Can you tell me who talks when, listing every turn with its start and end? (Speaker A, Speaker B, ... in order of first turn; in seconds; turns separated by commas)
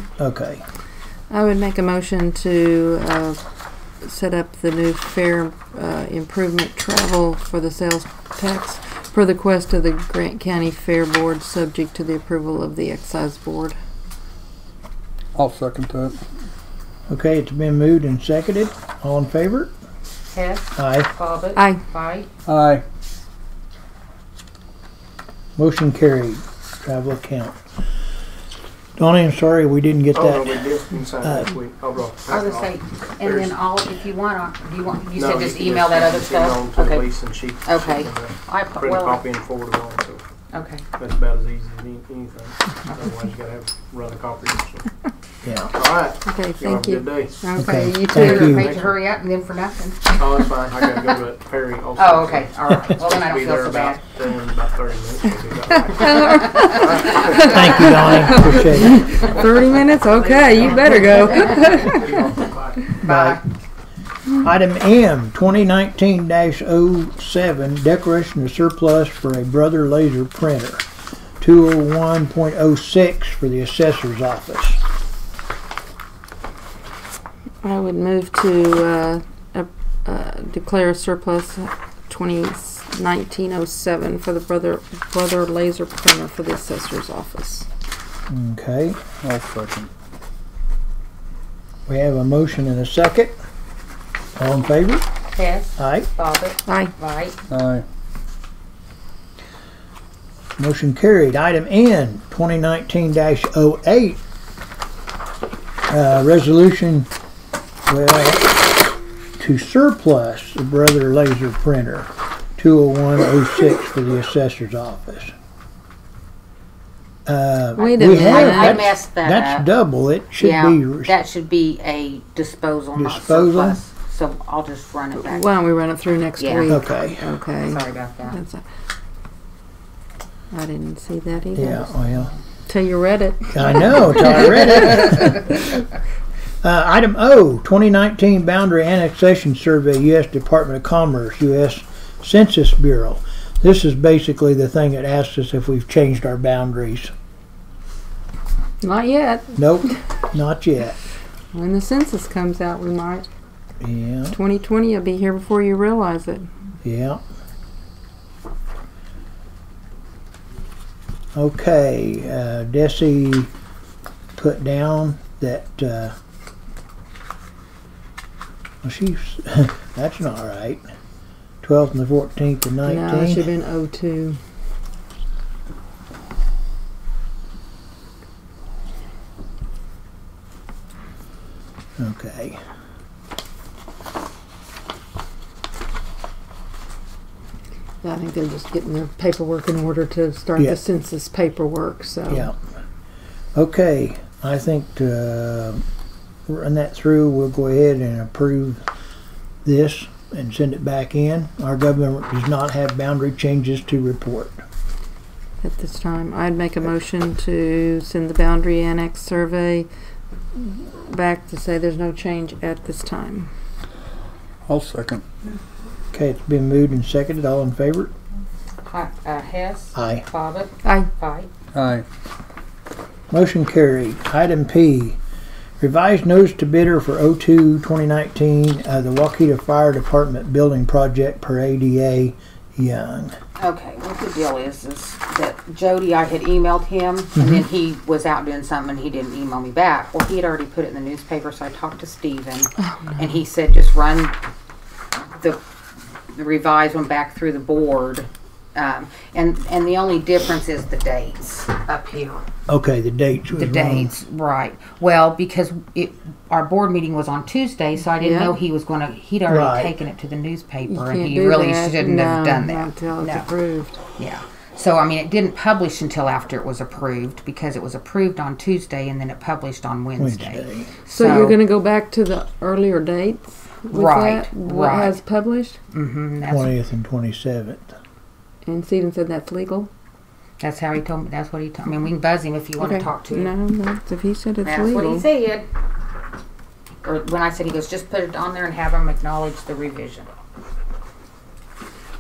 Speaker A: 0.2-0.6, Speaker B: 1.3-3.4, Speaker B: 4.0-13.8, Speaker C: 15.3-16.2, Speaker A: 17.1-19.7, Speaker D: 20.3-22.3, Speaker A: 20.8-21.1, Speaker C: 22.5-22.8, Speaker A: 25.6-27.6, Speaker A: 29.0-30.6, Speaker E: 30.1-33.6, Speaker A: 31.2-31.5, Speaker D: 32.3-37.1, Speaker E: 35.1-40.3, Speaker D: 37.6-39.2, Speaker D: 40.5-40.9, Speaker E: 41.0-44.9, Speaker A: 45.4-45.7, Speaker E: 45.7-47.4, Speaker B: 46.3-48.7, Speaker A: 47.6-48.7, Speaker D: 48.1-50.2, Speaker E: 48.6-48.9, Speaker E: 50.2-58.7, Speaker D: 52.0-54.0, Speaker B: 55.9-62.3, Speaker D: 56.1-57.1, Speaker A: 57.5-59.1, Speaker E: 60.1-63.0, Speaker D: 60.3-61.9, Speaker A: 63.0-63.4, Speaker D: 63.0-63.4, Speaker A: 64.4-70.8, Speaker A: 71.4-74.8, Speaker B: 77.6-87.7, Speaker A: 88.3-89.0, Speaker C: 89.2-89.9, Speaker A: 91.9-93.4, Speaker A: 94.4-95.0, Speaker D: 95.3-97.4, Speaker A: 95.8-96.1, Speaker B: 96.7-96.9, Speaker C: 97.5-97.8, Speaker A: 100.6-104.2, Speaker A: 105.9-107.1, Speaker A: 107.9-108.5, Speaker A: 109.4-115.3, Speaker A: 117.3-121.2, Speaker B: 117.8-118.9, Speaker D: 117.8-119.7, Speaker D: 120.4-125.5, Speaker A: 123.0-123.8, Speaker B: 125.2-128.6, Speaker D: 126.4-126.8, Speaker A: 126.7-127.3, Speaker D: 127.7-128.4, Speaker B: 130.5-131.9, Speaker A: 131.6-132.3, Speaker B: 132.7-135.4, Speaker A: 133.5-135.8, Speaker A: 136.6-147.1, Speaker B: 148.8-149.6, Speaker A: 149.6-151.0, Speaker B: 151.5-153.3, Speaker A: 153.8-154.4, Speaker B: 154.3-156.5, Speaker A: 156.8-157.2, Speaker A: 161.4-163.5, Speaker A: 164.4-166.2, Speaker A: 168.8-170.8, Speaker A: 171.6-173.5, Speaker B: 172.9-174.4, Speaker A: 182.0-182.6, Speaker B: 188.0-192.5, Speaker A: 192.3-192.6, Speaker A: 193.6-195.8, Speaker A: 196.5-198.8, Speaker A: 199.6-204.6, Speaker B: 205.6-209.9, Speaker B: 210.6-213.5, Speaker C: 214.7-215.2, Speaker A: 216.1-218.1, Speaker D: 218.9-221.5, Speaker A: 219.9-220.2, Speaker C: 221.7-222.1, Speaker A: 223.3-225.2, Speaker A: 225.8-233.3, Speaker D: 233.6-244.4, Speaker A: 237.4-237.6, Speaker B: 242.8-243.3, Speaker D: 245.3-245.6, Speaker D: 246.3-252.5, Speaker A: 252.7-254.1, Speaker D: 253.6-263.5, Speaker B: 258.1-258.6, Speaker A: 259.5-260.0, Speaker B: 260.9-264.0, Speaker D: 264.2-271.6, Speaker A: 270.2-270.9, Speaker B: 271.1-275.8, Speaker D: 273.9-275.2, Speaker D: 275.9-276.7, Speaker A: 276.5-277.9, Speaker B: 278.6-279.9, Speaker D: 280.6-283.5, Speaker B: 282.8-285.3, Speaker D: 284.6-285.7, Speaker D: 287.0-290.3